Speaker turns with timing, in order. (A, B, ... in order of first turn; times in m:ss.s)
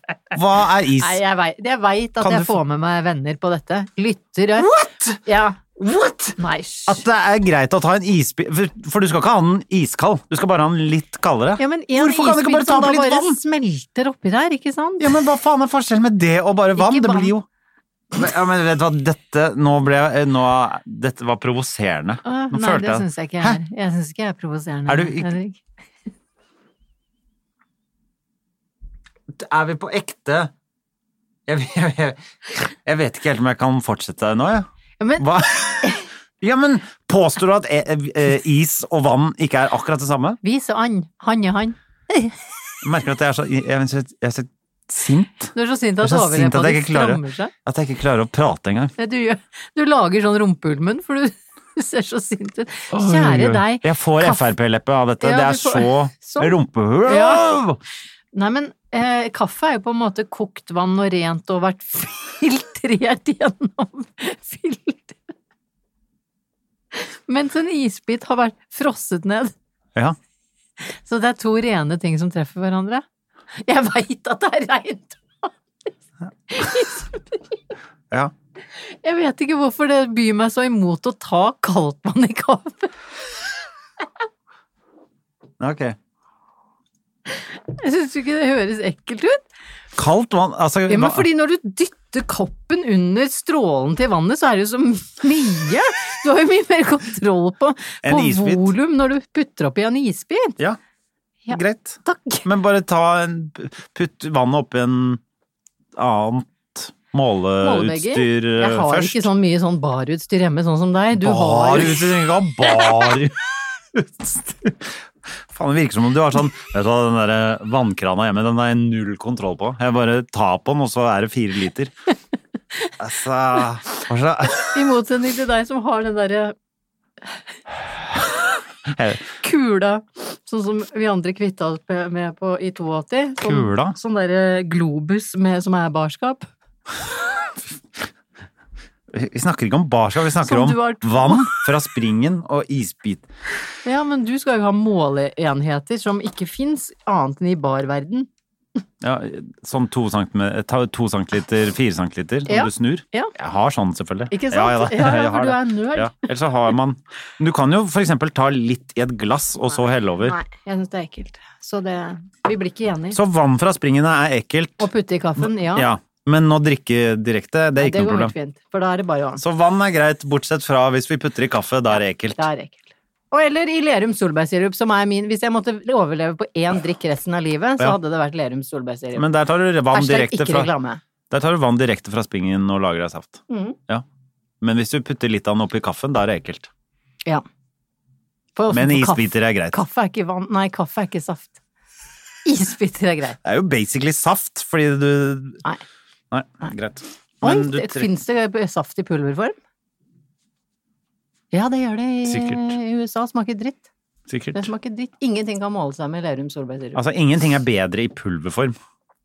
0:00.3-0:01.2 A
0:01.0-0:04.7 B
0:02.2-0:02.6 A
0:04.6-0:05.2 A
0:05.2-0:07.0 B
0:05.8-0:06.3 A
0:06.9-0:13.4 A
0:11.6-0:15.1 B
0:15.0-0:17.4 A
0:16.8-0:17.3 B
0:18.1-0:23.6 A
0:22.2-0:25.6 B
0:24.9-0:25.3 A
0:29.3-0:30.5 A
0:31.5-0:34.7 A
0:35.0-0:36.0 B
0:35.2-0:40.4 A
0:40.4-0:42.3 B
0:42.8-0:48.9 A
0:45.5-0:47.5 B
0:49.0-0:54.5 B
0:52.9-0:57.8 A
0:55.2-0:57.4 B
0:58.3-1:05.2 B
1:06.9-1:09.5 B
1:11.0-1:13.0 B
1:13.6-1:15.5 B
1:16.5-1:17.2 B
1:18.8-1:22.9 B
1:25.6-1:26.0 A
1:27.4-1:29.4 B
1:30.0-1:31.3 A
1:30.9-1:40.6 B
1:38.0-1:38.7 A
1:41.5-1:42.4 B
1:41.5-1:45.2 A
1:46.0-1:49.3 A
1:47.6-1:52.2 B
1:51.1-2:01.9 A
2:03.0-2:04.8 A
2:04.7-2:06.5 B
2:08.9-2:09.2 A
2:09.4-2:16.5 B
2:13.4-2:14.0 A
2:19.1-2:23.3 A
2:20.4-2:21.6 B
2:23.8-2:28.3 B
2:29.0-2:40.4 A
2:32.5-2:33.3 B
2:34.3-2:36.2 B
2:39.7-2:43.2 B
2:43.1-2:48.3 A
2:44.8-2:45.9 B
2:47.8-2:49.4 B
2:49.4-2:52.4 A
2:52.4-2:59.2 B
2:59.1-3:00.7 A
2:59.9-3:01.0 B
3:01.3-3:04.0 A
3:03.5-3:03.8 B
3:04.6-3:06.7 A
3:08.6-3:11.6 B
3:08.7-3:09.8 A
3:12.4-3:13.4 B
3:13.4-3:15.6 A
3:16.3-3:18.1 A
3:17.4-3:19.6 B
3:21.5-3:23.8 B
3:22.2-3:22.7 A
3:24.3-3:24.7 A
3:24.5-3:27.0 B
3:26.9-3:28.8 A